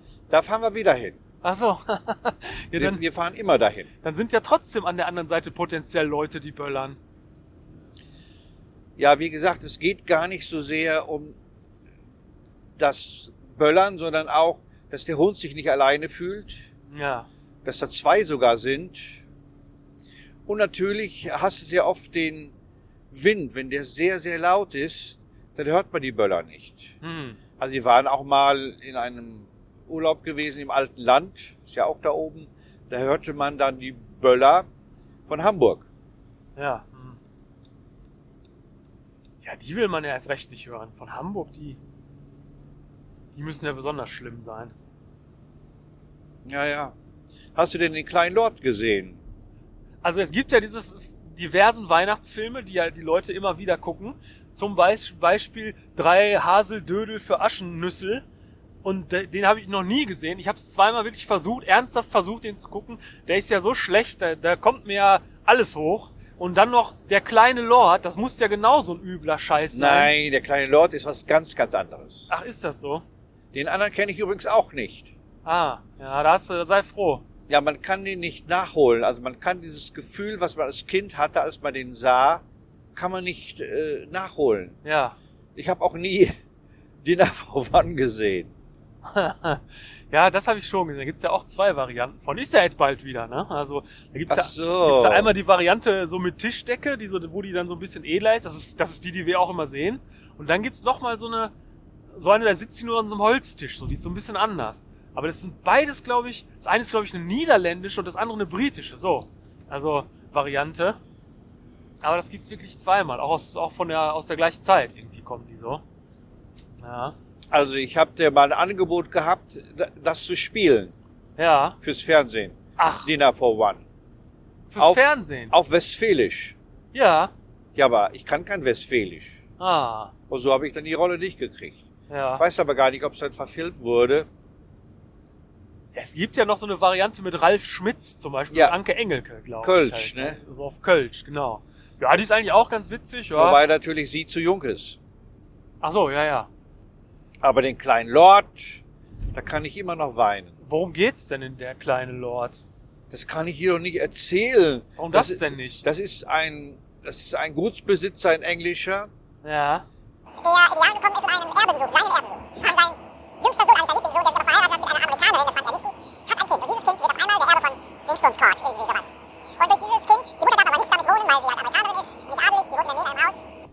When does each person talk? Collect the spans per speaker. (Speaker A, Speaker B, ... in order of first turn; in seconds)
Speaker A: 0.3-1.2, 2.8-3.9, 9.0-11.4, 12.8-16.7, 17.6-19.2, 20.5-22.5, 23.1-26.9, 27.6-34.7, 35.3-35.9, 46.5-47.0, 47.5-49.2, 69.7-72.3, 73.5-75.1, 77.5-82.4, 83.0-84.8, 85.6-86.3, 87.0-88.5, 94.3-95.3, 117.5-121.0, 121.8-123.8, 124.8-126.6, 127.8-129.4, 130.3-131.8, 132.4-134.3, 138.5-138.8, 139.6-140.4, 143.4-145.0, 147.4-150.6, 153.1-159.1
Speaker B: 1.4-3.0, 4.0-7.0, 16.9-17.3, 27.0-27.4, 36.6-37.2, 39.4-41.8, 43.3-44.7, 50.0-58.2, 58.8-70.1, 72.3-73.0, 75.5-77.2, 84.8-85.2, 89.0-101.5, 102.1-111.0, 112.0-115.8, 116.8-117.2, 121.4-121.8, 122.8-123.1, 124.7-125.5, 126.9-127.3, 129.6-130.1, 132.1-132.4, 135.9-143.6, 145.8-146.5, 150.6-152.6, 155.0-155.8, 159.4-159.9
Speaker C: 160.4-173.4